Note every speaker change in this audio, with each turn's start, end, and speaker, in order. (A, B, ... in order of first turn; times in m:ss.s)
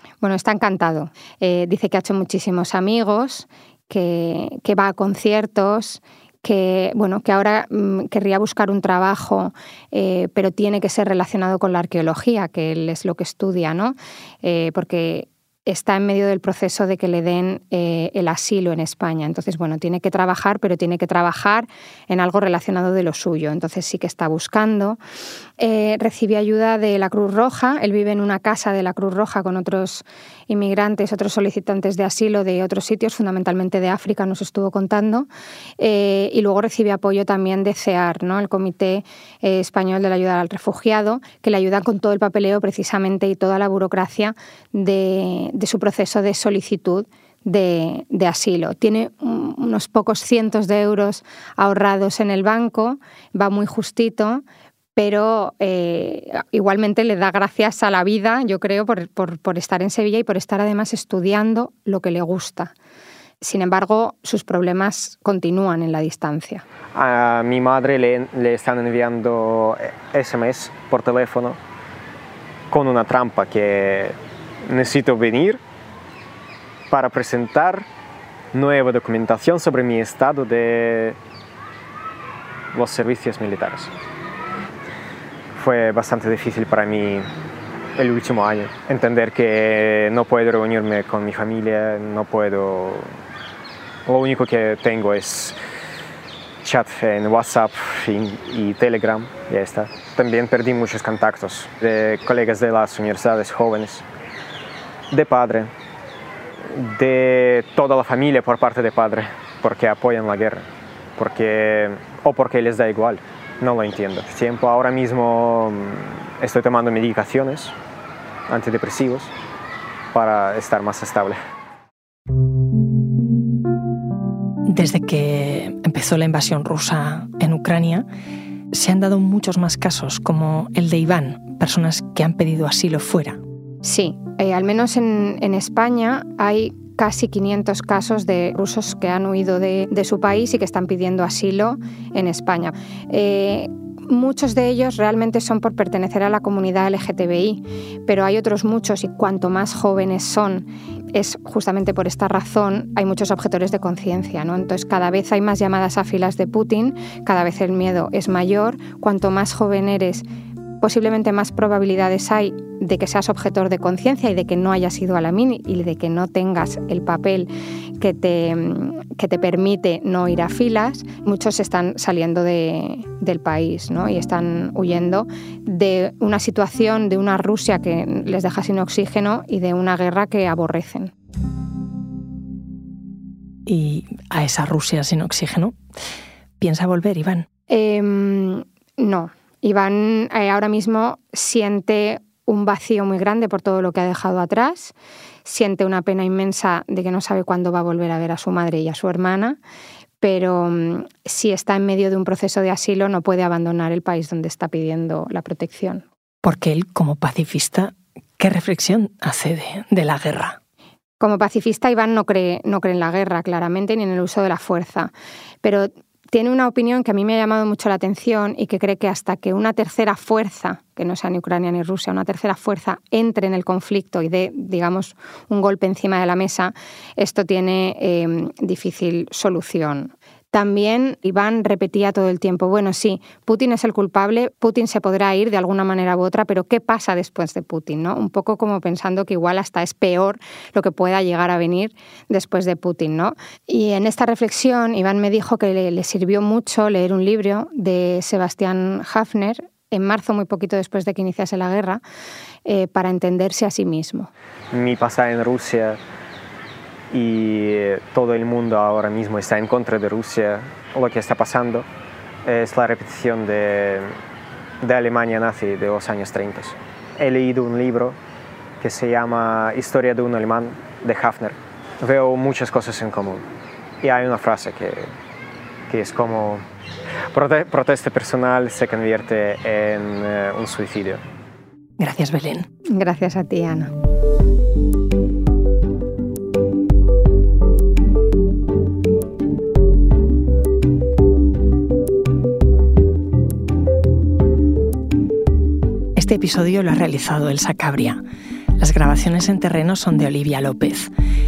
0:00.2-0:25.0 A
0:25.6-0:35.3 A
0:35.8-0:54.4 A
0:55.0-1:02.7 A
1:03.4-1:06.6 A
1:06.9-1:11.6 B
1:12.7-1:14.2 B
1:14.7-1:15.6 B
1:16.9-1:17.8 B
1:18.5-1:21.2 B
1:22.7-1:23.9 B
1:25.6-1:27.3 B
1:28.0-1:33.1 B
1:34.1-1:35.6 B
1:36.6-1:44.0 B
1:45.1-1:45.7 B
1:46.7-1:50.6 B
1:51.2-1:57.7 B
1:58.5-1:59.3 B
2:00.1-2:01.4 B
2:04.7-2:08.1 C
2:08.7-2:13.4 C
2:13.8-2:40.2 A
2:40.8-3:01.1 A
3:03.7-3:05.8 C
3:06.6-3:07.5 C
3:07.7-3:14.9 A
3:15.4-3:19.6 A
3:20.2-3:26.0 A
3:26.4-3:30.6 C
3:31.2-3:35.1 A
3:35.6-4:12.0 A
4:12.6-4:14.3 A
4:14.7-4:16.0 B
4:17.1-4:21.8 B
4:22.4-4:24.1 B
4:24.8-4:28.2 B
4:28.8-4:33.4 B
4:34.0-4:35.1 B
4:35.9-4:36.6 B
4:37.3-4:41.2 B
4:42.0-4:42.7 C
4:43.0-4:43.9 A
4:56.2-4:58.2 C
4:58.8-5:01.1 C